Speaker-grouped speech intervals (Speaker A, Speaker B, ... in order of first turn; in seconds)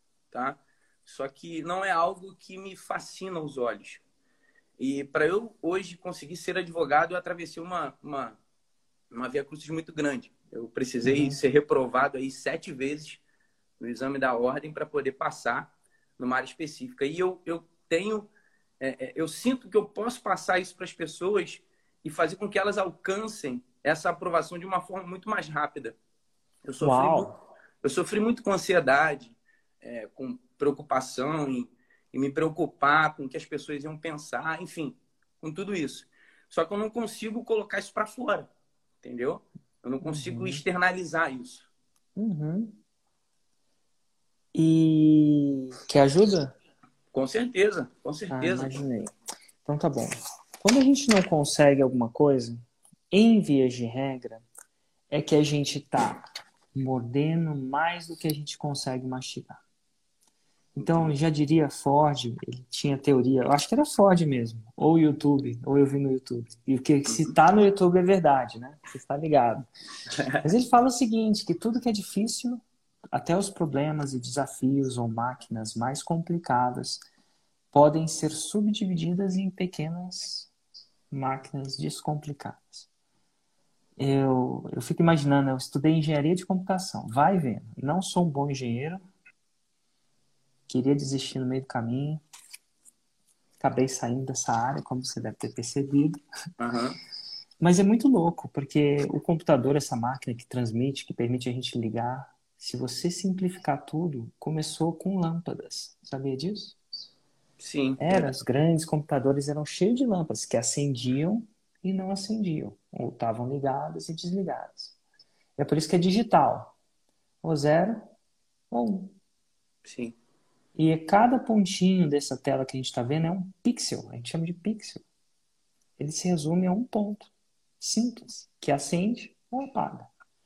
Speaker A: 0.3-4.0, 4.8-8.4, 9.1-13.2, 13.8-25.9, 26.6-27.3, 27.8-38.5, 39.0-41.7, 47.1-48.8, 60.8-61.1, 67.1-67.3, 96.6-97.0, 107.6-108.3, 119.8-120.2
Speaker B: 11.0-11.4, 26.8-27.4, 40.0-40.6, 42.1-42.8, 44.5-46.5, 48.3-49.1, 49.6-54.4, 55.1-59.6, 60.8-69.6, 70.4-72.6, 73.1-77.0, 77.7-80.5, 81.1-82.9, 84.0-89.0, 90.7-92.2, 93.6-96.2, 97.6-106.8, 108.0-115.0, 115.6-116.7, 117.4-118.1, 118.7-119.2, 120.7-125.0, 126.0-130.1